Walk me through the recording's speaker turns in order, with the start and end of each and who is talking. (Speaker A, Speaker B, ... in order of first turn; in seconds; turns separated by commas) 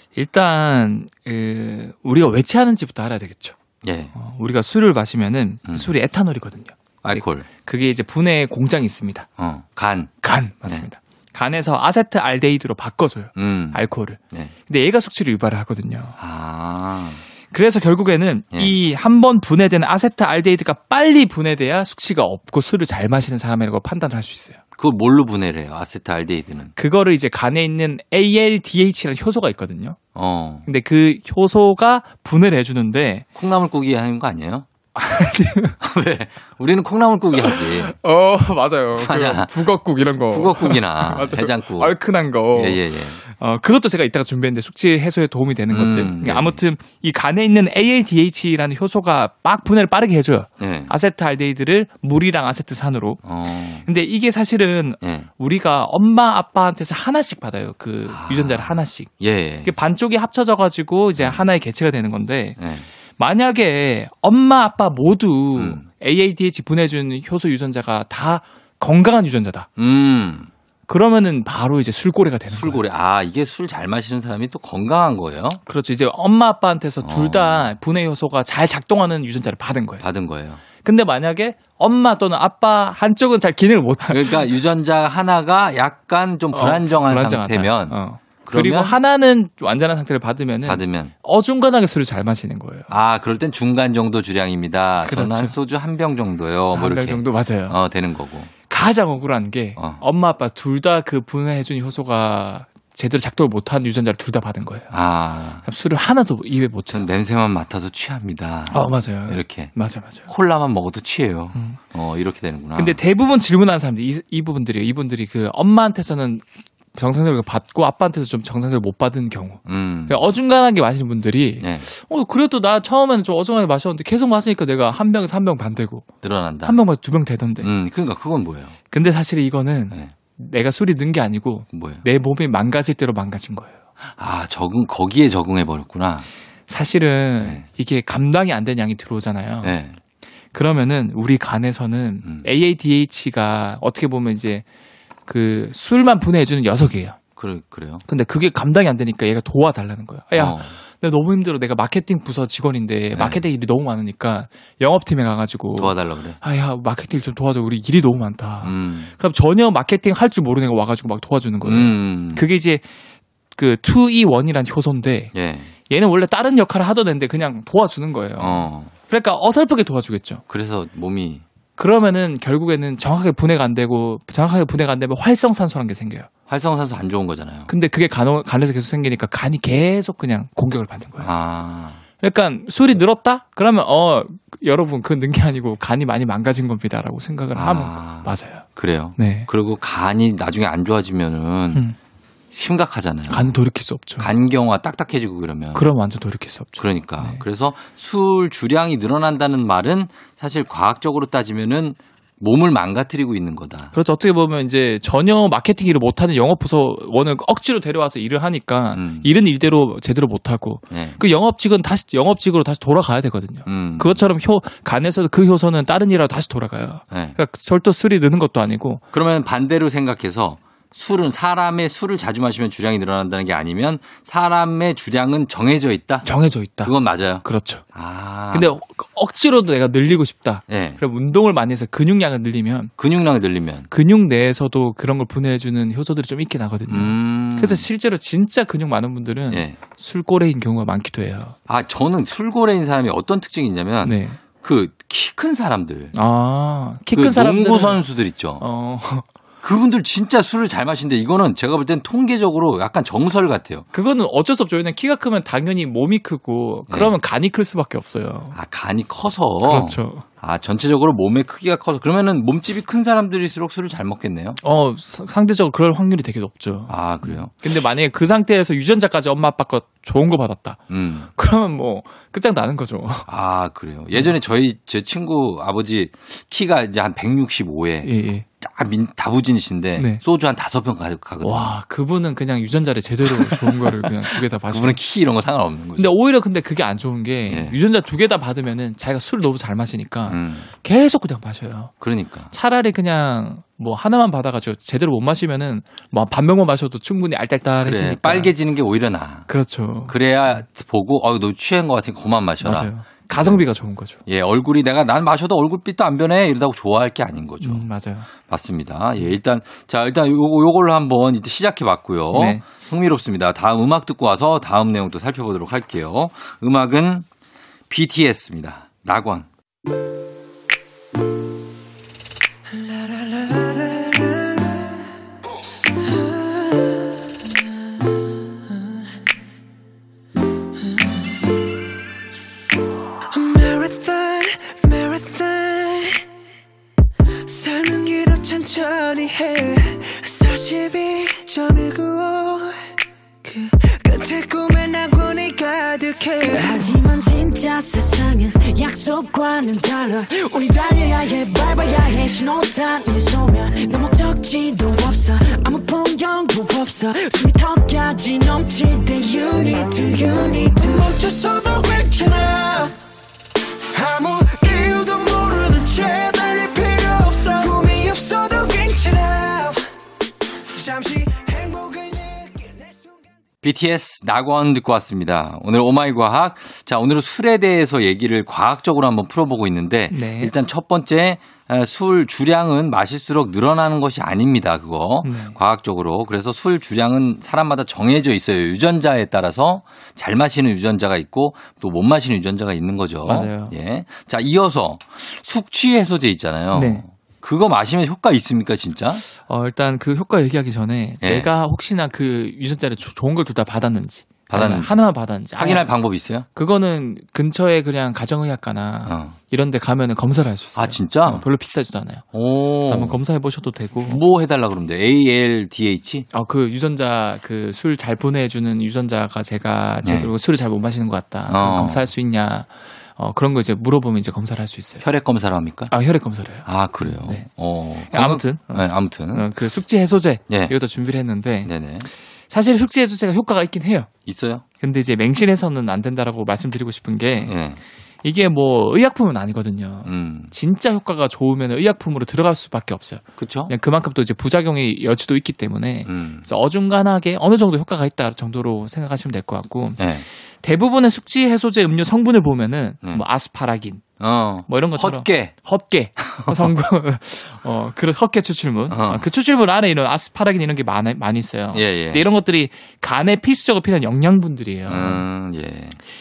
Speaker A: 0.1-3.5, Speaker B: 3.8-4.1, Speaker A: 4.1-9.3, Speaker B: 5.7-5.9, Speaker B: 7.0-7.5, Speaker B: 9.4-10.1, Speaker A: 10.2-16.1, Speaker B: 13.3-14.5, Speaker B: 16.2-17.2, Speaker A: 17.5-24.6, Speaker B: 24.8-26.7, Speaker A: 26.8-30.0, Speaker B: 30.1-30.7, Speaker A: 30.6-33.2, Speaker B: 33.3-34.6, Speaker A: 35.0-35.8, Speaker B: 35.8-37.9, Speaker A: 37.4-53.2, Speaker B: 38.9-39.6, Speaker B: 40.3-42.0, Speaker B: 42.5-43.2, Speaker B: 45.7-46.6, Speaker B: 50.6-50.9, Speaker B: 53.2-53.9, Speaker A: 53.8-59.1, Speaker B: 55.0-55.3, Speaker B: 58.1-59.7, Speaker A: 59.6-62.6, Speaker B: 61.2-61.5, Speaker B: 62.6-62.9, Speaker A: 63.2-69.7, Speaker B: 65.5-65.8, Speaker B: 69.8-70.5, Speaker A: 70.9-72.8, Speaker B: 72.5-75.6, Speaker A: 75.7-80.0, Speaker B: 77.0-77.7, Speaker B: 80.0-80.6, Speaker A: 80.8-84.5, Speaker B: 84.0-89.0, Speaker A: 86.5-92.9, Speaker B: 90.6-91.1, Speaker B: 92.9-98.5, Speaker A: 95.0-95.5, Speaker A: 96.7-97.8, Speaker A: 98.7-104.9, Speaker B: 99.8-100.0, Speaker B: 104.9-105.6, Speaker A: 105.6-107.0, Speaker B: 106.9-109.7, Speaker A: 108.7-110.3, Speaker B: 110.3-113.0, Speaker A: 112.7-126.1, Speaker B: 119.7-120.3, Speaker B: 121.6-121.9, Speaker B: 126.2-126.8, Speaker A: 126.6-127.7, Speaker B: 127.6-128.8, Speaker A: 128.9-133.8, Speaker B: 131.7-132.0, Speaker B: 134.0-136.3, Speaker A: 136.7-139.7, Speaker B: 139.6-140.0, Speaker A: 140.5-144.6, Speaker B: 142.2-142.5, Speaker A: 145.3-147.2, Speaker B: 147.3-148.0, Speaker A: 148.1-162.8, Speaker B: 150.3-150.7, Speaker B: 153.1-153.4, Speaker B: 155.8-156.4, Speaker B: 158.6-159.1, Speaker B: 161.6-162.4, Speaker A: 163.5-165.3, Speaker B: 165.3-165.7, Speaker A: 165.9-170.4, Speaker B: 168.4-168.9, Speaker B: 170.5-171.4, Speaker A: 171.8-176.3, Speaker B: 176.5-177.7, Speaker A: 177.7-181.3, Speaker B: 181.2-182.0, Speaker A: 182.2-188.6, Speaker B: 187.5-191.8, Speaker A: 189.2-189.5, Speaker B: 192.5-193.5, Speaker A: 193.3-194.3, Speaker B: 194.2-195.9, Speaker A: 195.7-197.4, Speaker B: 196.8-203.9, Speaker A: 203.9-219.0, Speaker B: 208.9-209.3, Speaker B: 210.9-211.2, Speaker B: 213.7-214.2, Speaker B: 217.1-217.4, Speaker B: 219.1-226.3, Speaker A: 226.2-227.8, Speaker B: 226.8-228.7, Speaker A: 228.5-232.9, Speaker B: 230.7-231.0, Speaker B: 233.0-233.9, Speaker A: 233.9-241.6, Speaker B: 236.9-237.8, Speaker B: 239.5-239.8, Speaker B: 241.7-246.1, Speaker A: 244.0-244.4, Speaker A: 246.1-248.0, Speaker B: 247.1-248.6, Speaker A: 248.6-249.3, Speaker B: 249.6-253.8, Speaker A: 253.9-258.6, Speaker B: 256.9-257.1, Speaker B: 258.5-264.6, Speaker A: 259.6-260.2, Speaker A: 264.6-270.8, Speaker B: 266.9-267.5, Speaker B: 270.9-271.3, Speaker A: 271.4-273.3, Speaker B: 273.3-278.1, Speaker A: 278.0-278.4, Speaker B: 278.6-281.8, Speaker A: 279.9-280.2, Speaker A: 281.4-285.0, Speaker B: 283.2-286.1, Speaker A: 286.0-291.9, Speaker B: 287.5-287.8, Speaker B: 290.3-290.7, Speaker B: 292.0-292.5, Speaker A: 292.5-298.5, Speaker B: 297.8-299.5, Speaker A: 299.5-300.6, Speaker B: 300.1-303.6, Speaker A: 302.6-304.2, Speaker B: 304.2-307.8, Speaker A: 307.6-308.3, Speaker B: 308.4-317.2, Speaker A: 312.3-312.6, Speaker B: 317.9-319.5, Speaker C: 322.8-324.9, Speaker C: 326.0-327.0, Speaker C: 333.3-336.2, Speaker C: 337.4-342.7, Speaker C: 343.4-346.9, Speaker D: 346.5-360.8, Speaker C: 359.5-362.9, Speaker C: 363.9-369.8, Speaker C: 370.8-373.2, Speaker B: 373.6-399.2, Speaker A: 380.1-380.5, Speaker A: 385.2-385.6, Speaker A: 393.2-393.7, Speaker A: 396.7-397.0, Speaker A: 399.3-405.9, Speaker B: 401.2-401.5, Speaker B: 404.5-405.0, Speaker B: 405.6-406.4, Speaker A: 406.5-412.2, Speaker B: 409.1-409.4, Speaker B: 410.7-411.4, Speaker B: 412.3-413.2, Speaker A: 412.9-414.2, Speaker B: 414.1-416.3, Speaker A: 416.3-425.0, Speaker B: 420.0-420.3, Speaker B: 421.5-422.1, Speaker B: 425.0-425.9, Speaker A: 425.9-427.5, Speaker B: 426.6-429.5, Speaker A: 428.1-431.7, Speaker B: 430.5-430.7, Speaker B: 431.6-432.1, Speaker A: 432.5-434.1, Speaker B: 434.2-434.6, Speaker A: 434.8-437.6, Speaker B: 437.4-437.8, Speaker A: 438.2-450.0, Speaker B: 440.0-440.5, Speaker B: 443.4-443.7, Speaker B: 446.1-446.5, Speaker B: 450.0-450.2, Speaker A: 450.6-454.0, Speaker B: 454.2-455.5, Speaker A: 454.7-465.2, Speaker B: 456.2-456.7, Speaker B: 458.9-459.3, Speaker B: 461.7-462.2, Speaker B: 464.9-466.0